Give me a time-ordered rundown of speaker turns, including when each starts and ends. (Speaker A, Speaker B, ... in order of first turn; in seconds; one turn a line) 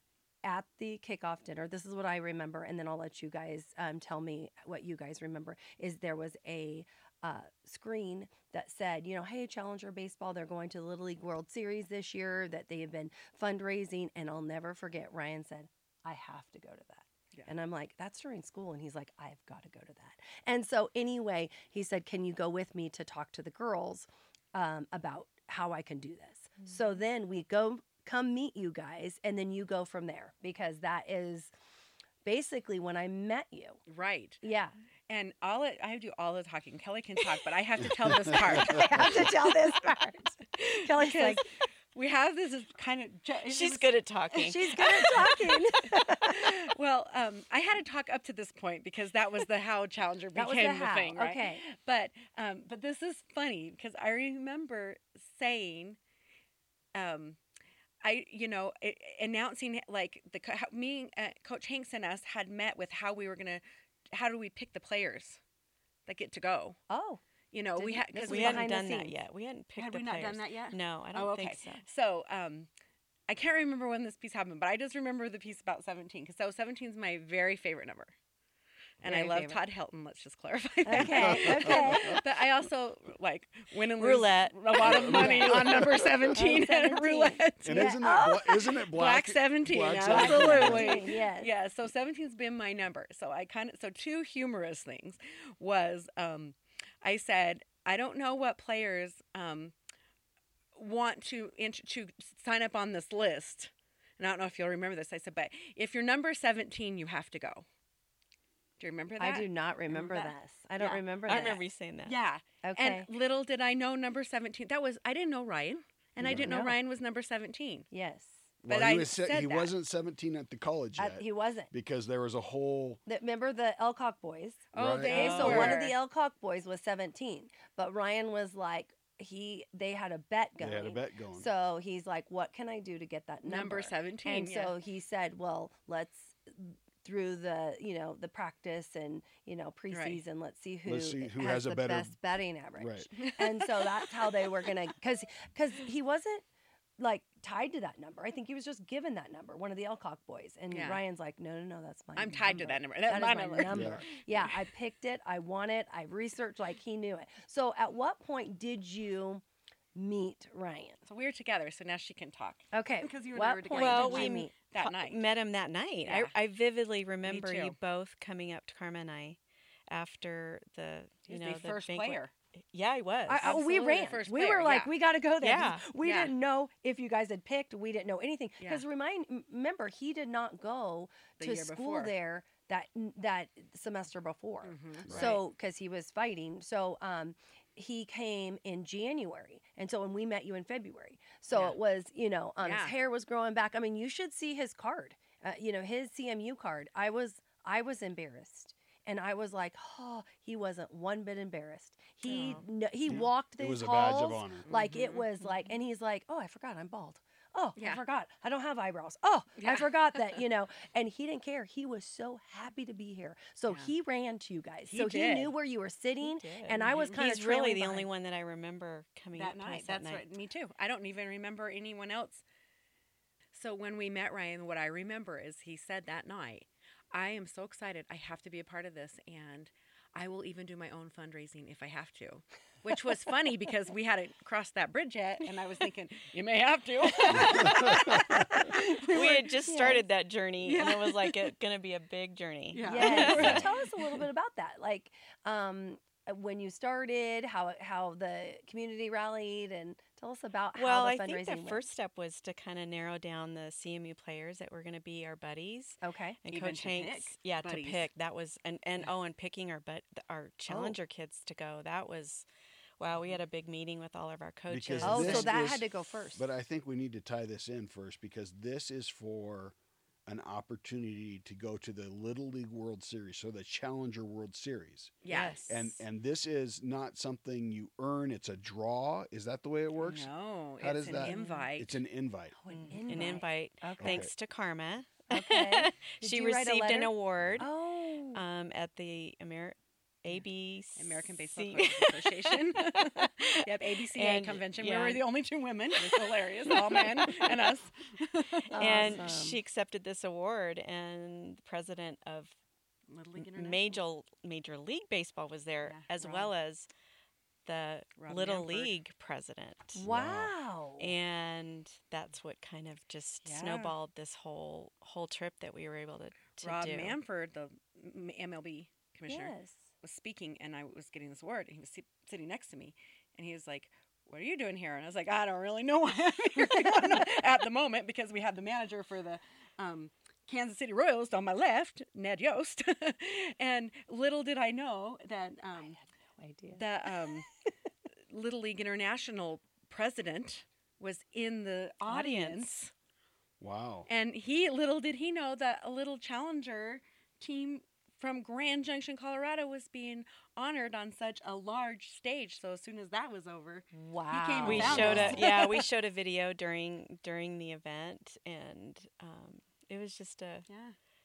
Speaker A: 0.4-31.5
Speaker A: 32.2-33.8
Speaker B: 33.9-34.4
Speaker A: 34.4-34.8
Speaker B: 35.1-39.2
Speaker C: 38.4-39.2
Speaker A: 38.4-41.5
Speaker B: 41.0-45.3
Speaker D: 43.5-45.3
Speaker A: 44.4-46.7
Speaker B: 46.1-56.0
Speaker A: 50.4-51.6
Speaker B: 56.9-57.4
Speaker B: 58.0-65.4
Speaker B: 66.1-66.8
Speaker A: 66.9-67.2
Speaker B: 67.5-68.7
Speaker A: 67.8-69.2
Speaker D: 68.2-71.8
Speaker B: 69.8-72.7
Speaker B: 73.3-78.1
Speaker B: 79.0-88.2
Speaker A: 79.0-79.6
Speaker A: 80.8-82.2
Speaker C: 81.0-82.2
Speaker D: 84.0-85.6
Speaker C: 84.8-86.4
Speaker A: 85.1-88.6
Speaker C: 87.6-91.1
Speaker B: 88.8-99.7
Speaker A: 90.0-91.5
Speaker B: 100.8-107.7
Speaker B: 108.8-117.9
Speaker A: 109.2-111.6
Speaker D: 111.3-112.2
Speaker A: 112.6-113.1
Speaker C: 116.2-116.5
Speaker A: 116.2-116.8
Speaker A: 117.9-118.5
Speaker C: 118.6-123.0
Speaker B: 118.7-119.7
Speaker A: 121.0-121.7
Speaker A: 123.1-146.5
Speaker C: 124.7-125.8
Speaker B: 124.7-126.0
Speaker D: 125.1-125.9
Speaker C: 130.6-131.5
Speaker B: 133.4-134.7
Speaker B: 139.9-140.2
Speaker C: 140.9-142.2
Speaker C: 142.8-143.1
Speaker B: 143.2-144.5
Speaker A: 147.0-159.4
Speaker B: 150.7-151.0
Speaker B: 152.2-154.6
Speaker C: 153.7-154.1
Speaker A: 159.9-161.0
Speaker B: 161.0-165.2
Speaker A: 162.7-164.5
Speaker D: 163.8-169.4
Speaker B: 166.1-166.3
Speaker B: 167.2-167.8
Speaker D: 169.9-173.5
Speaker B: 171.3-172.3
Speaker A: 173.3-218.1
Speaker B: 173.4-174.9
Speaker D: 175.4-175.9
Speaker B: 176.0-176.3
Speaker B: 181.4-182.1
Speaker B: 184.6-185.4
Speaker C: 185.1-185.4
Speaker B: 191.5-191.8
Speaker B: 192.6-192.9
Speaker D: 202.3-202.7
Speaker C: 203.1-204.7
Speaker B: 204.7-205.3
Speaker B: 207.8-208.0
Speaker B: 209.6-210.4
Speaker B: 214.9-215.5
Speaker D: 216.2-220.2
Speaker B: 219.3-222.4
Speaker B: 223.5-239.7
Speaker D: 238.6-243.7
Speaker A: 239.7-240.0
Speaker B: 240.6-241.5
Speaker B: 242.7-244.2
Speaker A: 242.8-251.9
Speaker D: 250.8-262.5
Speaker A: 256.0-256.4
Speaker B: 256.5-258.1
Speaker A: 260.7-261.0
Speaker D: 263.0-265.8
Speaker B: 263.1-263.4
Speaker C: 264.7-269.8
Speaker A: 265.0-266.5
Speaker C: 270.3-282.6
Speaker B: 275.2-275.6
Speaker A: 275.3-276.0
Speaker B: 280.0-282.0
Speaker A: 281.0-281.6
Speaker A: 282.6-284.3
Speaker D: 282.7-287.7
Speaker C: 284.0-284.3
Speaker A: 285.3-288.4
Speaker C: 287.4-287.7
Speaker D: 288.3-295.2
Speaker B: 291.0-299.3
Speaker D: 296.0-297.5
Speaker A: 298.7-299.6
Speaker D: 298.8-302.6
Speaker B: 303.1-304.0
Speaker D: 303.4-306.9
Speaker B: 305.9-306.5
Speaker D: 307.6-310.1
Speaker B: 308.2-308.9
Speaker A: 309.9-311.1
Speaker C: 310.0-310.5
Speaker D: 311.0-317.2
Speaker B: 313.4-313.9
Speaker B: 316.6-336.0
Speaker A: 319.3-319.9
Speaker A: 336.4-337.3
Speaker B: 336.7-337.5
Speaker B: 338.3-342.9
Speaker D: 342.1-342.7
Speaker C: 343.6-344.1
Speaker B: 344.1-355.9
Speaker A: 353.9-355.3
Speaker C: 354.6-355.4
Speaker D: 354.6-360.7
Speaker B: 360.7-361.0